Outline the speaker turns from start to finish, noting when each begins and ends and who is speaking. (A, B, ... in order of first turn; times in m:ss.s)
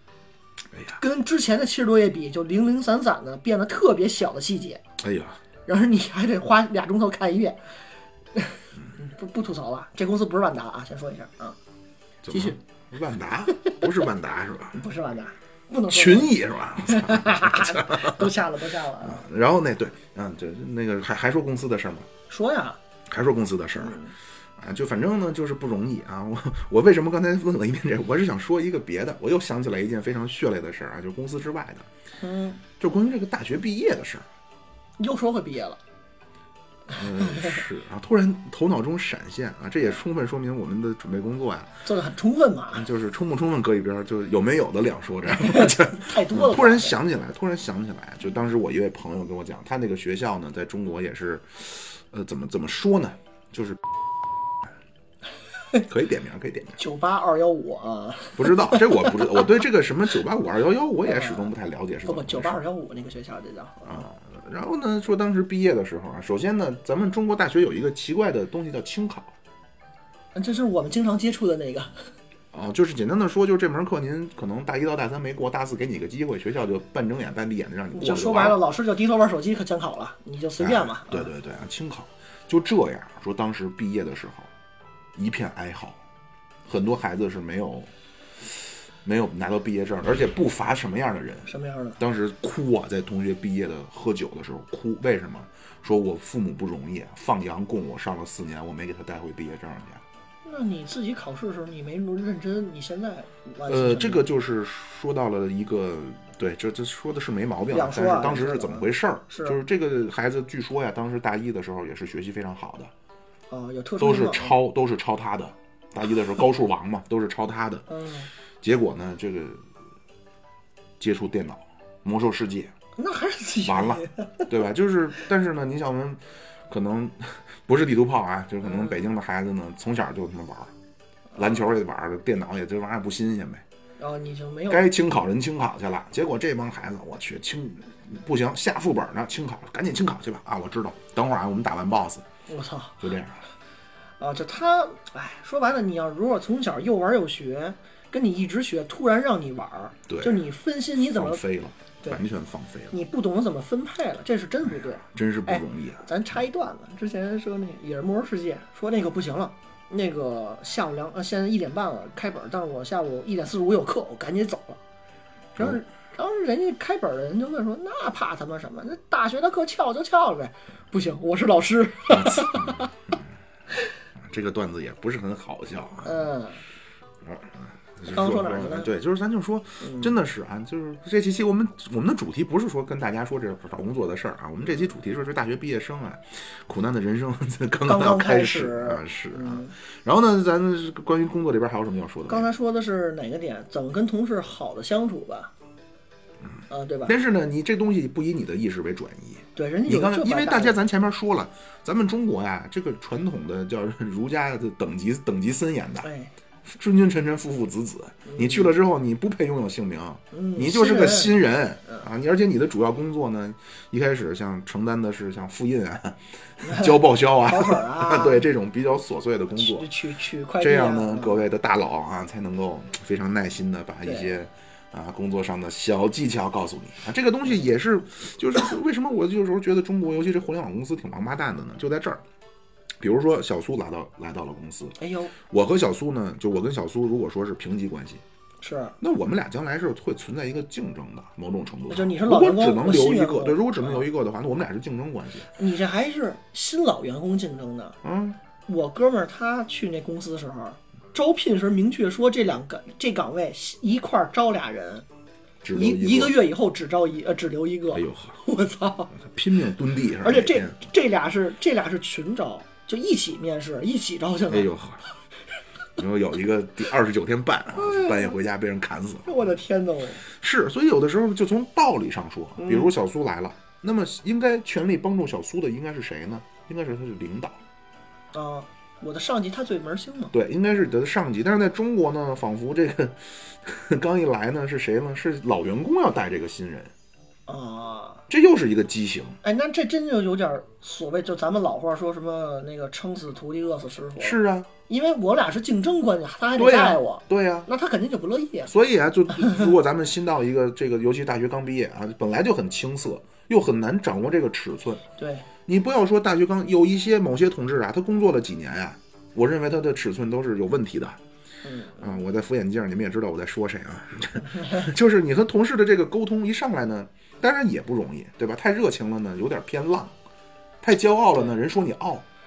0:00.7-0:01.0 A
0:01.0-0:04.8 B
0:05.0-0:05.4 A
0:05.7-0:07.6 B
0:08.4-0:11.6 B
0:12.2-0:14.8 A
0:12.3-0:12.6 B
0:13.6-0:13.8 B
0:14.7-0:19.2 B
0:15.9-0:18.3 A
0:19.0-0:22.1 A
0:22.3-0:22.8 B
0:23.1-0:24.0 A
0:23.8-0:24.1 B
0:24.6-0:31.9 A
0:32.2-0:32.6 B
0:32.8-0:34.3 A
0:35.0-0:35.8 B
0:36.9-0:41.7 A
0:37.0-0:37.6 B
0:41.8-0:42.9 B
0:42.7-0:53.9 A
0:45.4-0:47.0 B
0:55.8-0:56.8 A
0:56.8-0:59.4 B
0:58.4-1:02.6 A
1:01.0-1:01.5 B
1:02.0-1:04.1 B
1:03.9-1:09.3 A
1:10.4-1:12.0 B
1:12.5-1:18.6 A
1:17.9-1:21.3 B
1:20.6-1:24.5 A
1:25.2-1:26.0 A
1:26.7-1:40.0 A
1:31.5-1:32.0 B
1:40.4-1:44.3 B
1:43.7-1:52.9 A
1:47.7-1:49.6 B
1:53.5-1:54.6 B
1:54.0-1:57.8 A
1:57.9-1:58.3 B
1:58.6-1:59.6 A
2:01.0-2:02.7 A
2:03.0-2:04.5 B
2:03.6-2:10.7 A
2:11.4-2:13.6 A
2:14.0-2:14.9 B
2:14.7-2:22.2 A
2:22.5-2:23.0 B
2:23.0-2:23.4 A
2:24.2-2:31.4 B
2:30.1-2:30.4 A
2:31.0-2:32.9 A
2:32.9-2:44.8 B
2:35.0-2:36.0 A
2:45.6-2:52.9 B
2:52.1-2:53.2 A
2:54.2-2:56.2 A
2:56.0-2:56.6 B
2:57.2-3:12.5 A
2:58.1-2:58.9 B
2:59.8-3:00.1 B
3:07.8-3:09.7 B
3:12.3-3:15.5 B
3:16.7-3:17.1 B
3:17.1-3:26.1 A
3:19.6-3:20.8 B
3:26.0-3:26.3 B
3:26.6-3:39.9 A
3:28.3-3:28.7 B
3:30.3-3:32.0 B
3:36.6-3:38.5 B
3:39.6-3:41.5 B
3:40.6-3:52.2 A
3:44.0-3:44.3 B
3:53.0-3:58.2 A
3:55.0-3:55.4 B
3:58.6-3:59.0 B
3:59.0-4:05.5 A
4:01.9-4:04.1 B
4:05.5-4:08.0 B
4:08.0-4:08.4 A
4:08.7-4:15.0 B
4:15.6-4:16.4 A
4:15.7-4:19.1 B
4:17.9-4:18.4 A
4:19.1-4:20.8 A
4:20.2-4:24.7 B
4:24.5-4:25.0 A
4:26.0-4:29.4 A
4:27.8-4:28.4 B
4:29.2-4:30.2 B
4:30.3-4:37.6 A
4:32.6-4:32.9 B
4:38.3-4:40.3 B
4:40.3-4:46.9 A
4:47.5-4:48.2 B
4:48.3-4:49.4 A
4:49.4-4:54.4 B
4:54.2-4:54.7 A
4:54.9-4:58.7 B
4:56.6-4:57.7 A
4:58.7-5:05.0 A
5:05.2-5:05.5 B
5:05.7-5:11.2 A
5:11.6-5:12.2 B
5:12.0-5:20.1 A
5:20.8-5:22.2 A